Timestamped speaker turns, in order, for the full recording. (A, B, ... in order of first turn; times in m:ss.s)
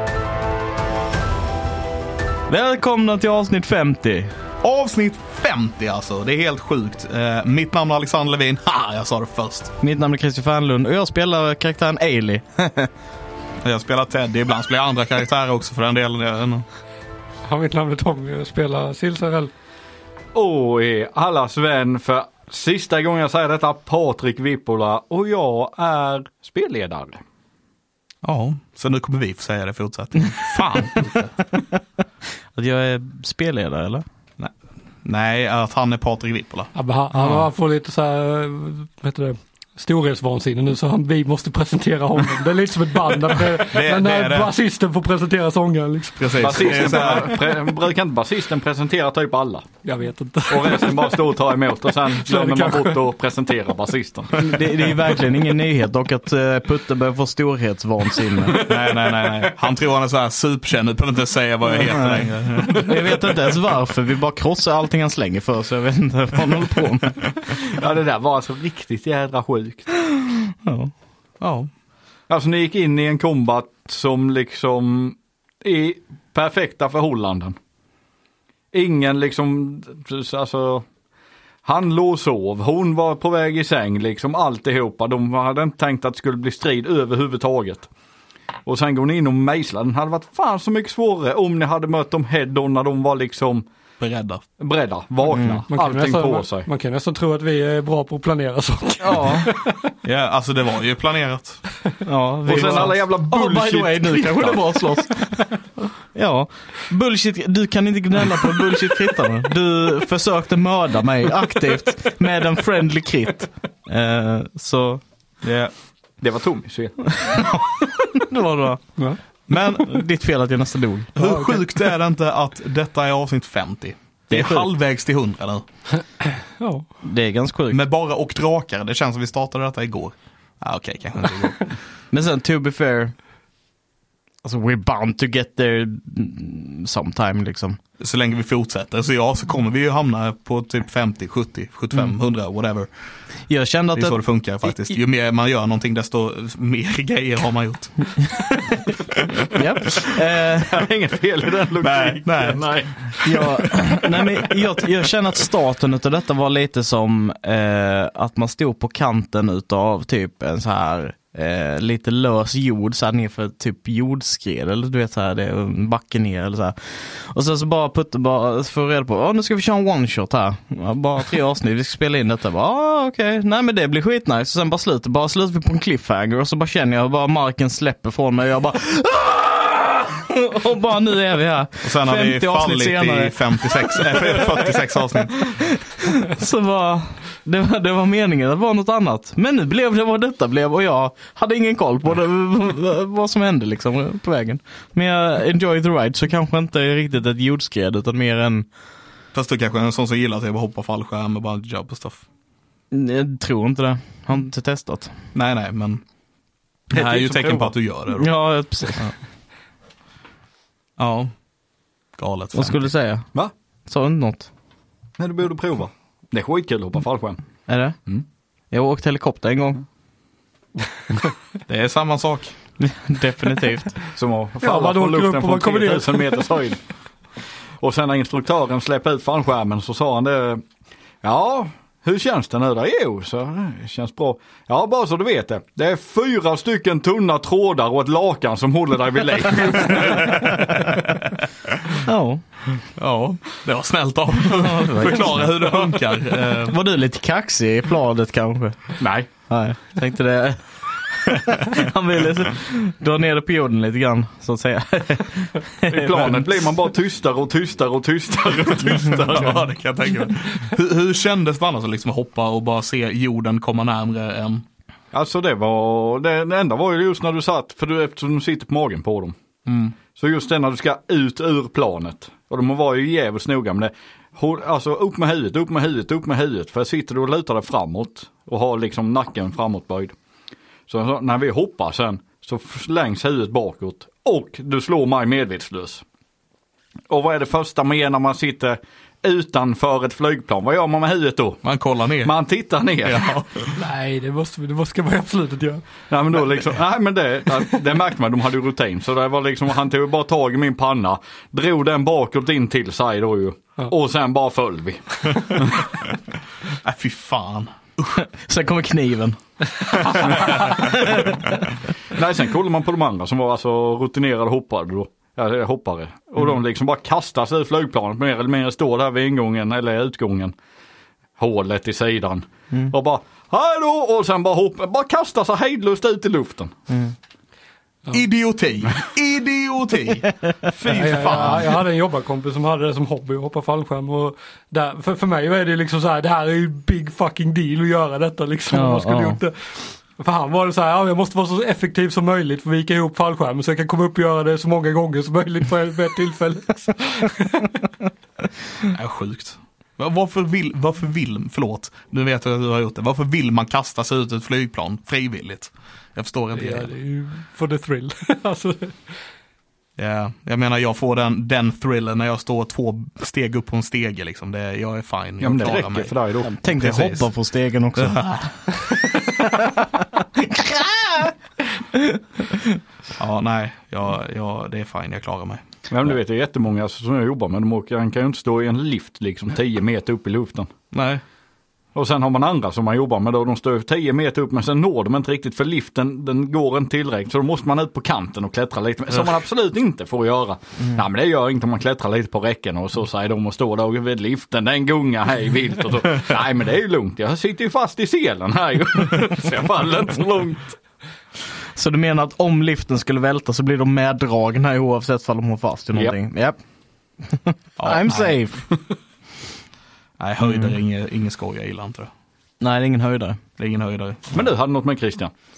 0:02.5-0:04.3 A
0:04.6-0:09.7 B
0:09.8-0:12.9 A
0:13.6-0:16.6 B
0:17.4-0:19.5 C
0:20.3-0:27.2 D
0:28.2-0:31.4 B
0:32.5-0:34.0 A
0:35.0-0:37.5 B
0:36.7-0:47.2 C
0:43.6-0:44.5 B
0:46.2-0:47.6 B
0:46.4-0:49.7 D
0:49.8-0:51.3 C
0:50.5-0:54.5 D
0:51.9-0:53.1 C
0:54.4-0:58.6 A
0:58.6-1:03.2 B
1:01.8-1:07.2 A
1:07.5-1:09.9 D
1:10.1-1:10.9 A
1:11.4-1:11.7 B
1:12.3-1:17.6 D
1:18.7-1:20.8 D
1:21.6-1:27.9 D
1:28.7-1:33.7 D
1:34.0-1:34.4 B
1:34.6-1:36.7 D
1:35.3-1:35.6 A
1:35.7-1:39.8 C
1:39.0-1:39.5 A
1:40.0-1:41.6 B
1:42.0-1:55.0 A
1:42.5-1:44.6 D
1:42.6-1:42.9 B
1:55.4-1:55.7 B
1:56.2-1:57.2 D
1:57.2-1:58.9 A
1:59.5-2:00.0 B
1:59.8-2:01.1 A
2:01.2-2:05.6 B
2:01.2-2:01.6 C
2:04.3-2:04.7 A
2:06.6-2:06.9 C
2:07.0-2:07.8 A
2:07.7-2:11.8 B
2:12.1-2:13.1 A
2:14.4-2:17.8 A
2:18.0-2:22.9 B
2:23.5-2:24.2 A
2:23.9-2:30.0 B
2:29.5-2:30.8 A
2:30.6-2:33.4 D
2:31.8-2:33.2 B
2:33.2-3:04.8 A
3:01.8-3:05.6 B
3:05.3-3:18.7 A
3:19.3-3:22.2 B
3:22.9-3:25.2 A
3:25.3-3:26.0 B
3:26.9-3:28.4 B
3:26.9-3:27.7 D
3:28.2-3:29.1 A
3:31.0-3:31.3 B
3:32.2-3:32.9 B
3:32.5-3:33.2 A
3:33.9-3:34.5 A
3:35.2-3:37.4 D
3:37.7-3:38.0 A
3:38.7-3:39.8 A
3:41.7-3:42.6 B
3:42.8-3:44.0 A
3:44.1-3:46.8 D
3:44.6-3:46.5 C
3:47.8-3:50.6 D
3:51.2-4:00.4 D
4:00.1-4:00.8 B
4:02.0-4:02.4 A
4:03.0-4:06.8 B
4:04.6-4:06.0 A
4:06.7-4:16.4 A
4:09.0-4:09.3 D
4:15.9-4:19.6 D
4:19.3-4:24.6 B
4:25.1-4:29.4 D
4:29.7-4:29.9 B
4:30.1-4:40.1 D
4:40.9-4:46.0 D
4:47.1-4:51.6 D
4:51.6-4:52.3 B
4:52.2-4:53.4 D
4:53.0-4:53.7 B
4:53.8-4:55.8 C
4:56.1-5:05.8 D
5:05.8-5:06.2 B
5:06.7-5:08.2 B
5:08.2-5:09.4 A
5:10.0-5:11.4 A
5:10.1-5:11.1 B
5:12.1-5:20.5 D
5:21.4-5:26.8 D
5:26.9-5:27.1 A
5:28.1-5:31.8 B
5:30.9-5:47.7 C
5:38.7-5:39.4 A
5:48.8-5:56.9 B
5:56.5-5:59.2 C
6:00.0-6:06.1 B
6:05.4-6:06.6 D
6:06.4-6:08.4 A
6:06.7-6:07.3 B
6:08.0-6:08.4 B
6:09.3-6:11.4 A
6:11.9-6:12.8 A
6:13.2-6:15.6 B
6:15.9-6:20.7 D
6:20.9-6:21.2 B
6:21.9-6:40.8 D
6:41.8-6:46.6 A
6:47.2-6:48.6 A
6:47.8-6:48.3 B
6:50.2-6:52.1 B
6:50.4-6:50.7 A
6:52.6-6:53.4 A
6:53.6-6:54.3 B
6:54.3-6:55.3 D